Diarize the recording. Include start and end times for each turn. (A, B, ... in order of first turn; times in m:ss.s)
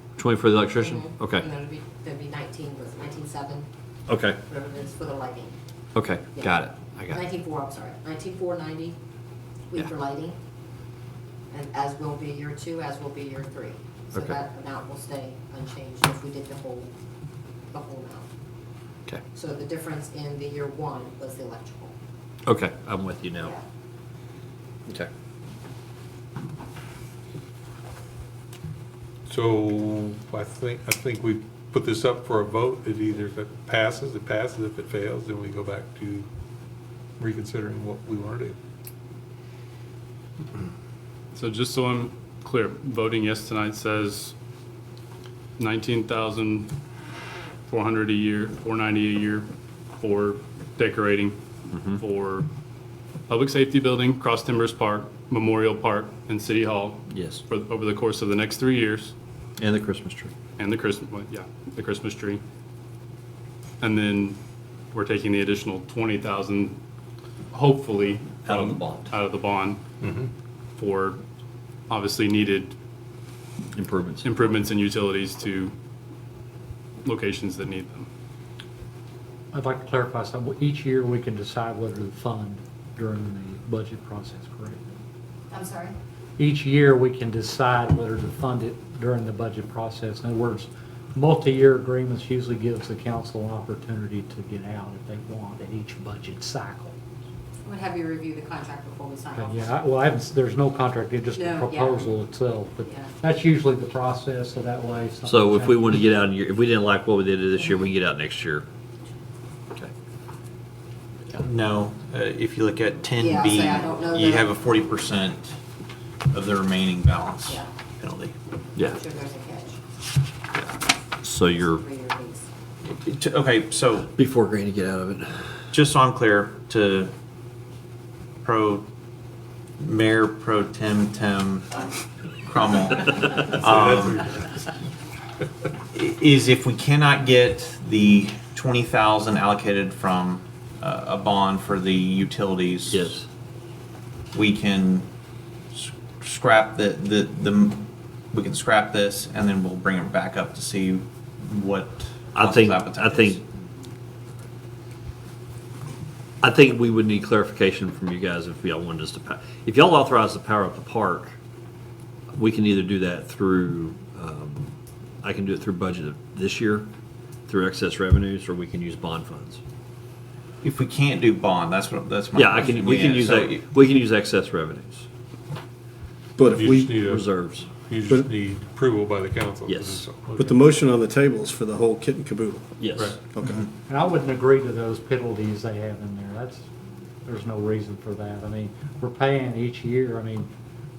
0:00.2-0:01.5 A
0:00.8-0:03.7 B
0:04.1-0:04.4 A
0:04.5-0:05.6 B
0:06.0-0:07.2 A
0:07.1-0:09.0 B
0:09.7-0:10.4 B
0:11.5-0:16.9 B
0:17.7-0:18.3 B
0:19.3-0:22.0 B
0:22.5-0:23.6 A
0:29.3-0:36.3 C
0:37.2-0:38.6 C
0:41.4-0:44.3 D
0:45.6-0:46.7 D
0:47.7-0:51.4 D
0:51.7-0:52.0 A
0:52.0-0:52.5 D
0:53.3-0:59.1 D
0:57.1-0:57.4 A
0:59.6-1:00.3 A
1:00.6-1:02.4 D
1:03.8-1:04.4 D
1:04.9-1:06.8 D
1:07.5-1:09.8 D
1:08.4-1:09.1 A
1:10.0-1:10.3 C
1:10.8-1:11.2 D
1:11.9-1:12.8 D
1:13.7-1:14.3 A
1:14.2-1:15.7 D
1:17.0-1:18.1 D
1:19.5-1:25.0 E
1:25.5-1:25.9 B
1:26.4-1:37.0 E
1:37.6-1:39.8 B
1:39.3-1:46.0 E
1:41.3-1:42.1 B
1:42.8-1:43.1 B
1:45.3-1:48.6 A
1:51.4-1:55.6 F
1:53.2-1:54.5 B
1:56.3-1:58.4 F
1:57.5-1:57.7 B
1:58.8-1:59.8 B
2:01.2-2:01.8 A
2:01.5-2:02.5 B
2:02.9-2:04.1 F
2:04.1-2:05.3 A
2:05.7-2:07.1 F
2:08.4-2:08.9 F
2:09.8-2:11.7 F
2:12.4-2:14.3 F
2:13.6-2:14.5 C
2:15.9-2:23.1 F
2:22.9-2:23.3 A
2:24.3-2:25.1 F
2:25.7-2:33.4 F
2:32.4-2:33.4 A
2:36.4-2:41.4 A
2:42.4-2:46.9 A
2:47.5-2:49.6 A
2:50.6-2:53.6 F
2:52.4-2:55.0 A
2:56.4-2:57.0 G
2:56.6-3:00.5 C
2:56.9-2:57.7 A
2:59.7-3:00.1 A
3:00.4-3:03.6 G
3:02.8-3:03.2 A
3:03.9-3:06.7 E
3:07.2-3:10.5 E